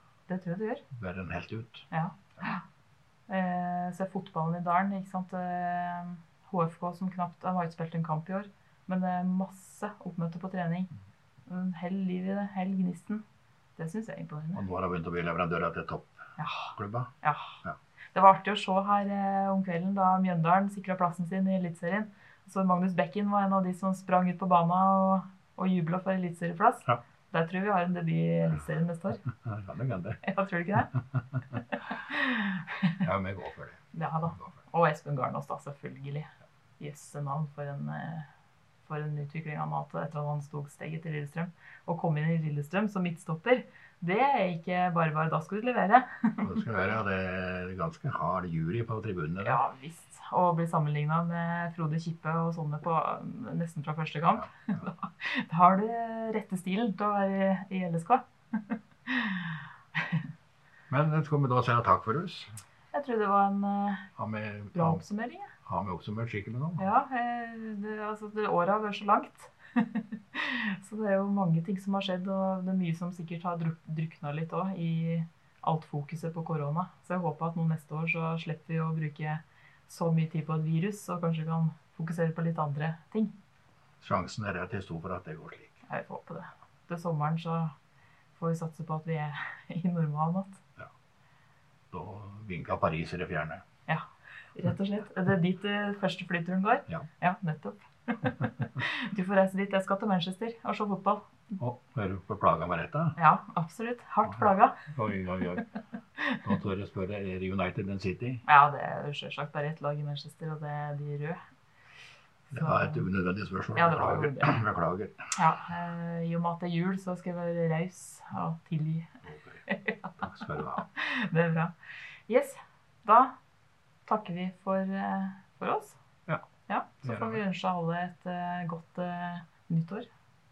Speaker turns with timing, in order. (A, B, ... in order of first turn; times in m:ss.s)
0:00.3-0:00.8 A
0:00.9-0:01.9 B
0:01.9-0:02.6 A
0:03.3-0:10.9 A
0:11.5-0:13.2 A
0:13.8-0:14.6 A
0:14.5-0:17.1 B
0:16.4-0:17.6 A
0:18.1-0:29.2 A
0:29.3-0:30.2 B
0:30.2-0:30.9 A
0:31.5-0:33.0 A
0:33.0-0:33.8 B
0:33.9-0:38.3 A
0:38.8-0:46.6 A
0:46.4-0:49.6 B
0:49.4-1:00.2 A
1:00.9-1:02.6 B
1:02.9-1:04.1 A
1:04.2-1:05.0 B
1:04.7-1:05.5 A
1:05.6-1:06.8 B
1:06.8-1:23.3 A
1:24.0-1:25.8 B
1:25.9-1:27.7 A
1:28.4-1:30.6 A
1:31.9-1:33.6 B
1:33.9-1:41.3 A
1:41.6-1:43.2 B
1:43.2-1:44.9 A
1:44.2-1:45.7 B
1:46.2-1:46.4 A
1:46.4-1:48.4 B
1:48.4-1:51.4 A
1:52.5-1:53.0 A
1:52.5-1:55.3 B
1:53.8-1:54.6 A
1:55.3-2:00.3 A
1:59.3-1:59.6 B
2:00.2-2:00.8 B
2:00.8-2:01.7 A
2:02.3-2:03.4 A
2:04.0-2:06.0 A
2:06.7-2:10.1 A
2:07.0-2:07.4 B